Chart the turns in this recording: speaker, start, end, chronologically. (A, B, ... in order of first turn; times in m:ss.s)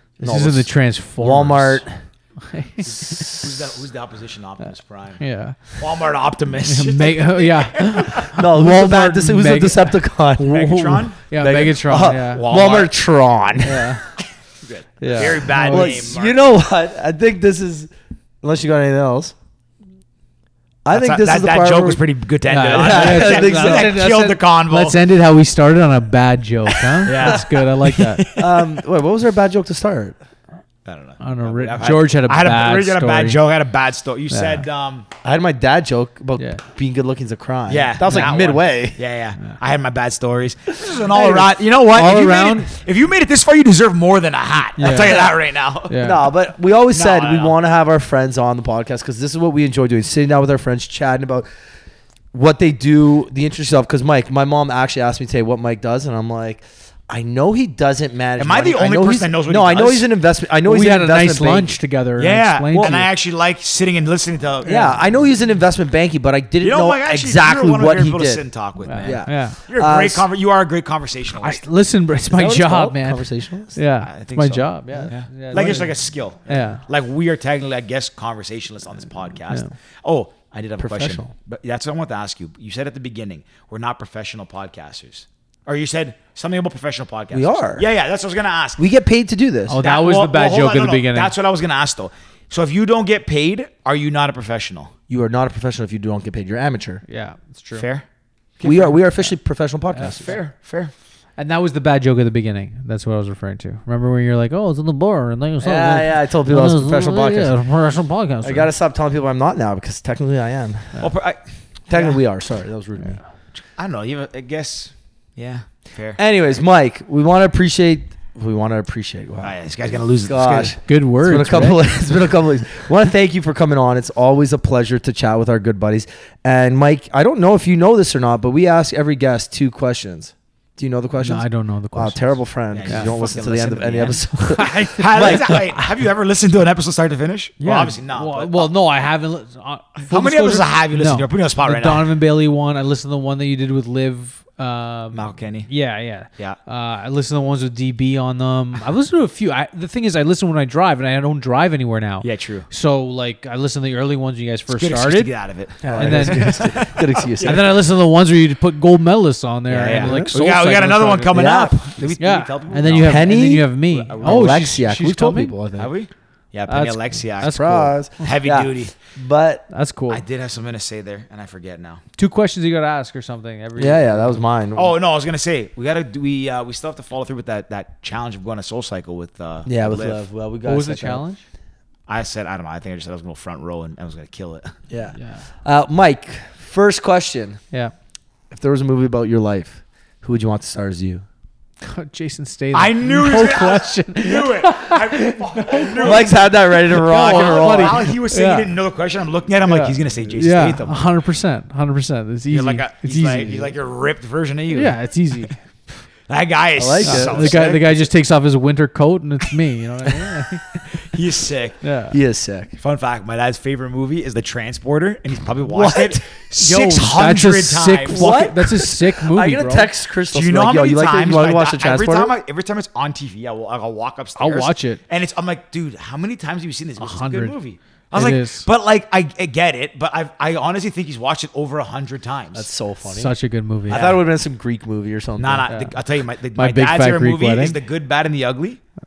0:00.2-0:03.3 A
0:00.2-0:01.8 B
0:02.9-0:05.2 C
0:05.2-0:05.8 A
0:05.8-0:08.3 C
0:06.6-0:12.4 A
0:08.3-0:14.0 B
0:10.4-0:11.2 C
0:12.3-0:13.0 C
0:13.6-0:14.0 A
0:14.6-0:16.4 C
0:15.0-0:16.1 A
0:15.6-0:17.9 B
0:18.4-0:19.3 B
0:20.8-0:22.0 B
0:20.9-0:25.0 C
0:22.5-0:28.2 A
0:22.7-0:24.0 B
0:27.0-0:28.7 C
0:28.4-0:30.2 B
0:30.8-0:35.0 C
0:31.2-0:33.4 A
0:34.3-0:34.6 A
0:35.2-0:39.0 B
0:36.4-0:36.6 A
0:37.7-0:46.0 C
0:38.0-0:38.4 A
0:40.8-0:42.6 B
0:41.9-0:42.6 A
0:44.8-0:45.3 A
0:44.8-0:45.3 B
0:45.9-0:46.2 A
0:46.0-0:51.5 B
0:46.9-0:47.5 C
0:52.3-1:01.8 B
0:58.4-1:00.0 C
1:00.6-1:03.1 A
1:02.2-1:04.9 C
1:02.7-1:03.0 B
1:04.6-1:08.4 B
1:06.6-1:11.6 C
1:08.8-1:09.6 A
1:09.0-1:10.3 B
1:11.4-1:15.9 A
1:12.3-1:13.7 B
1:14.0-1:28.8 C
1:14.9-1:15.1 B
1:16.4-1:16.8 A
1:20.8-1:21.3 B
1:27.3-1:27.9 B
1:28.8-1:29.8 B
1:29.7-1:31.3 A
1:29.8-1:34.9 C
1:35.1-1:37.0 B
1:37.1-1:37.9 A
1:37.8-1:38.0 C
1:38.6-1:39.3 C
1:38.6-1:40.4 B
1:39.9-1:40.4 A
1:40.0-1:40.9 C
1:41.4-1:48.7 A
1:45.6-1:47.6 B
1:48.4-1:51.0 B
1:51.0-1:51.4 C
1:51.9-1:53.2 B
1:53.6-1:56.2 C
1:56.2-2:15.5 B
1:59.4-2:00.8 C
2:00.8-2:01.9 A
2:11.2-2:13.2 A
2:12.7-2:18.7 C
2:14.4-2:15.9 A
2:17.6-2:41.5 A
2:20.0-2:22.1 C
2:25.1-2:25.7 C
2:32.2-2:32.7 C
2:34.7-2:37.7 C
2:35.8-2:37.7 B
2:39.7-2:44.6 C
2:39.8-2:40.3 B
2:41.3-2:42.2 B
2:42.2-2:45.6 A
2:43.0-2:45.9 B
2:45.8-2:48.9 C
2:46.7-2:48.3 A
2:47.6-2:49.6 B
2:49.7-2:50.2 A
2:50.1-2:52.0 C
2:52.2-2:54.4 A
2:53.8-2:54.9 B
2:54.7-3:00.2 C
2:59.6-3:01.2 B
3:00.6-3:01.4 A
3:02.1-3:04.8 C
3:04.9-3:07.6 B
3:05.1-3:05.4 A
3:08.5-3:11.2 B
3:11.8-3:18.7 A
3:12.7-3:21.0 C
3:16.0-3:18.1 B
3:19.6-3:23.7 A
3:22.5-3:25.0 C
3:24.7-3:25.9 A
3:26.3-3:28.1 C
3:26.8-3:27.6 B
3:27.0-3:30.9 A
3:30.9-3:31.8 C
3:31.8-3:32.2 A
3:32.1-3:32.7 B
3:32.8-3:38.6 C
3:35.7-3:36.2 B
3:35.8-3:39.9 A
3:38.1-3:42.3 B
3:40.3-3:52.7 C
3:44.4-3:45.0 A
3:47.0-3:47.6 A
3:48.1-3:48.7 A
3:52.6-3:53.3 B
3:53.1-3:54.1 A
3:53.9-3:55.7 B
3:53.9-3:54.2 C
3:55.4-3:58.8 C
3:55.7-3:56.0 A
3:56.6-3:57.8 A